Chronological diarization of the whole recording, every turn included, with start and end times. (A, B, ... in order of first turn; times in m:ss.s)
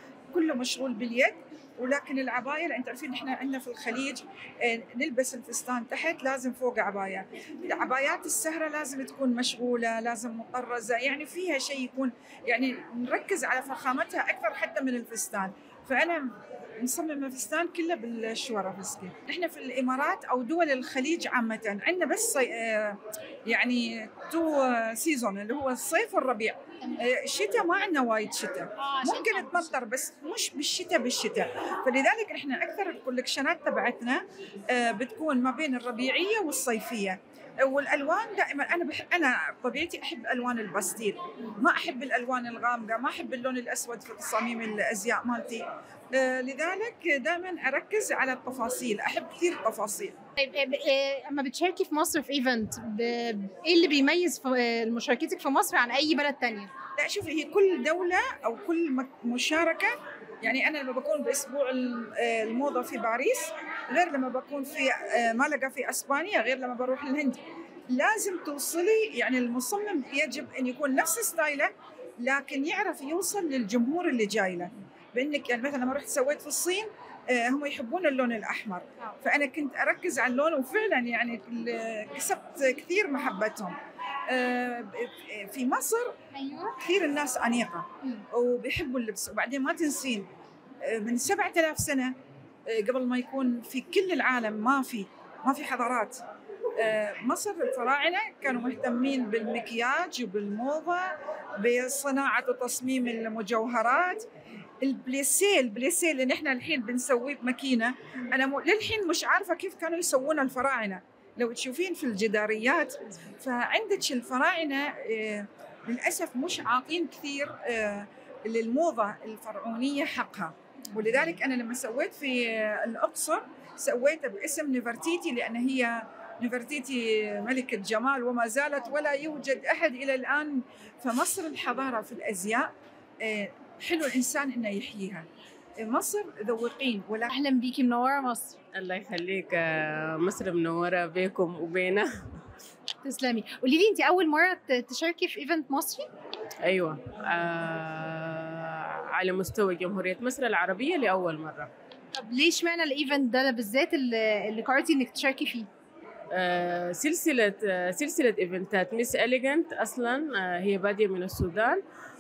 0:00.3-0:50.2 A
0:28.8-0:29.8 B
0:50.4-0:56.7 B
0:57.0-1:23.8 A
1:24.3-1:26.2 A
1:26.4-1:26.7 B
1:26.8-1:30.3 A
1:30.8-1:32.2 A
1:32.7-1:36.2 A
1:36.8-1:44.3 A
1:44.8-2:15.3 A
2:15.8-2:17.3 A
2:17.3-2:18.6 B
2:18.7-2:22.1 C
2:23.0-2:26.1 B
2:26.6-2:31.7 C
2:32.1-2:35.7 B
2:36.3-2:41.8 C